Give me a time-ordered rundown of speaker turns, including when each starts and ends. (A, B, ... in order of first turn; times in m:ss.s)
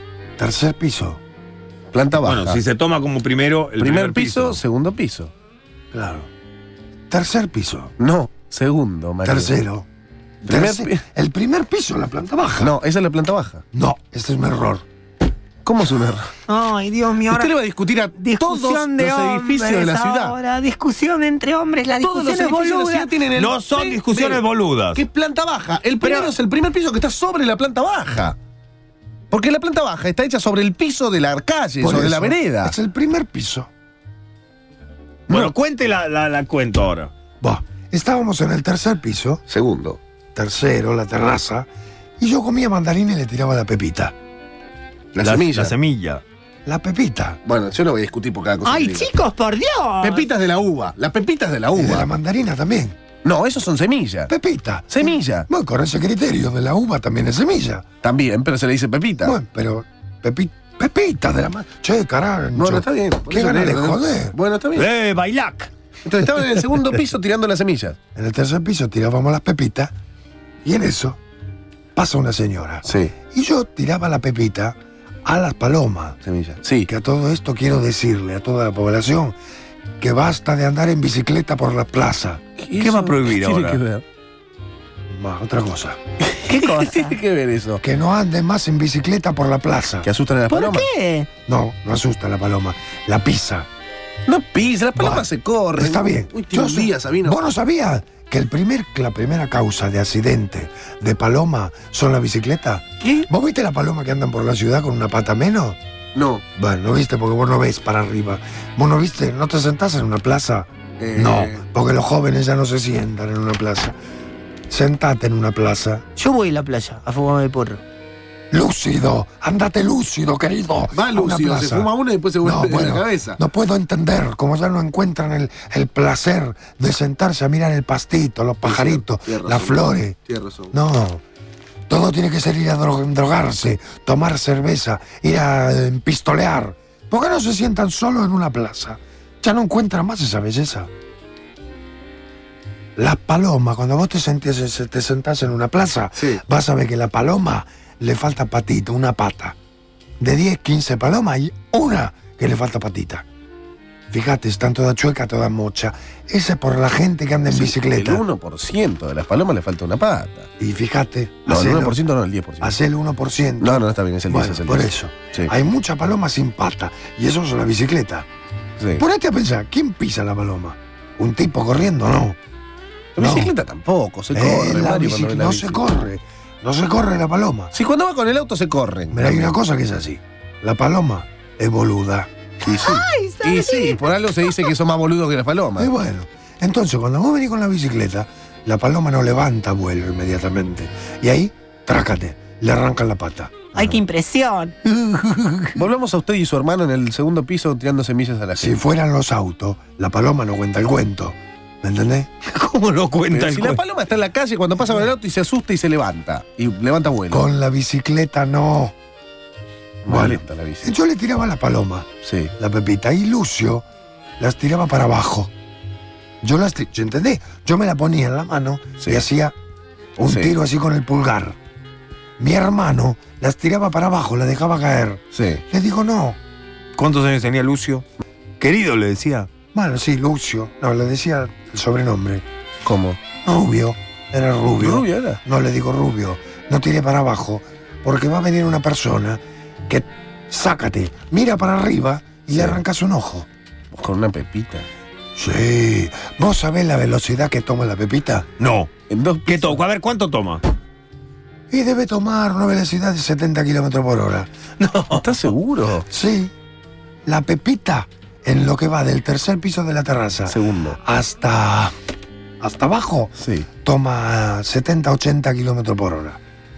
0:00.4-0:01.2 A
0:01.9-0:02.6 B
0:02.2-0:04.6 C
0:03.8-0:05.3 B
0:05.9-0:06.3 A
0:07.1-0:07.9 A
0:08.0-0:09.5 B
0:09.2-0:09.9 A
0:10.4-0:11.0 B
0:10.5-0:12.8 A
0:12.6-0:13.6 B
0:13.7-0:14.8 A
0:15.6-0:16.3 B
0:16.5-0:17.5 D
0:17.3-0:20.4 B
0:18.1-0:23.1 D
0:22.0-0:24.4 B
0:23.3-0:25.0 C
0:25.0-0:28.4 B
0:26.0-0:26.3 D
0:29.3-0:32.7 B
0:31.8-0:33.7 A
0:35.3-0:37.1 C
0:37.4-0:39.4 A
0:39.5-0:40.0 B
0:40.4-0:41.7 A
0:42.2-0:44.1 A
0:45.1-0:45.7 B
0:45.2-0:46.2 C
0:46.6-0:47.4 A
0:47.4-0:49.1 B
0:48.6-0:50.3 D
0:50.0-0:52.1 B
0:51.7-0:53.0 A
0:53.2-0:54.3 B
0:54.3-0:57.9 A
0:54.9-0:55.5 B
0:58.0-0:59.4 B
0:59.2-1:04.4 A
1:02.6-1:04.9 B
1:04.8-1:05.7 C
1:06.0-1:08.0 B
1:08.1-1:09.9 A
1:10.6-1:11.2 A
1:12.0-1:16.2 A
1:12.8-1:13.1 B
1:16.2-1:16.9 B
1:16.9-1:19.4 A
1:20.0-1:22.4 A
1:22.6-1:24.0 B
1:22.8-1:23.8 C
1:25.1-1:26.0 A
1:26.2-1:27.8 B
1:26.5-1:27.2 D
1:27.8-1:30.1 A
1:30.0-1:30.9 B
1:30.5-1:31.3 D
1:31.5-1:33.7 A
1:34.3-1:37.4 B
1:35.0-1:45.8 A
1:43.0-1:43.3 B
1:46.1-1:46.4 B
1:46.6-1:54.0 A
1:51.0-1:51.6 B
1:54.7-1:56.0 A
1:56.2-1:57.8 D
1:58.5-2:10.2 A
2:00.9-2:03.4 B
2:08.6-2:10.7 B
2:10.7-2:11.2 A
2:11.9-2:20.9 A
2:23.0-2:29.6 A
2:26.2-2:26.4 B
2:30.2-2:33.2 A
2:34.1-2:38.2 A
2:37.5-2:40.5 B
2:40.6-2:42.0 A
2:41.5-2:42.7 B
2:42.6-2:48.3 A
2:43.6-2:45.5 B
2:48.8-2:49.0 B
2:49.0-2:52.4 A
2:53.2-2:55.8 B
2:53.2-2:53.5 A
2:54.3-2:57.7 A
2:57.7-2:59.6 B
2:59.1-3:02.3 A
3:02.6-3:05.9 B
3:02.7-3:04.7 D
3:05.8-3:13.6 A
3:13.7-3:15.8 D
3:15.8-3:18.8 B
3:18.6-3:22.3 A
3:22.5-3:23.8 C
3:23.3-3:27.4 B
3:27.3-3:29.0 A
3:30.0-3:30.9 B
3:30.1-3:33.8 A
3:32.2-3:32.5 B
3:34.4-3:35.5 A
3:36.4-3:39.6 A
3:40.2-3:41.6 A
3:40.2-3:40.5 B
3:42.4-3:46.4 A
3:45.3-3:45.6 B
3:47.0-3:48.0 C
3:48.6-3:49.5 C
3:49.7-3:52.4 A
3:52.8-3:53.2 B
3:53.4-4:03.5 A
3:54.8-3:55.4 B
4:02.5-4:02.8 B
4:03.9-4:04.9 B
4:05.4-4:08.5 A
4:08.6-4:08.9 C
4:09.1-4:09.8 B
4:09.5-4:10.6 C
4:11.7-4:14.5 A
4:14.8-4:15.2 C
4:15.1-4:16.1 B
4:16.1-4:16.5 A
4:17.2-4:21.9 A
4:20.5-4:21.0 B
4:22.6-4:26.4 A
4:23.4-4:23.7 B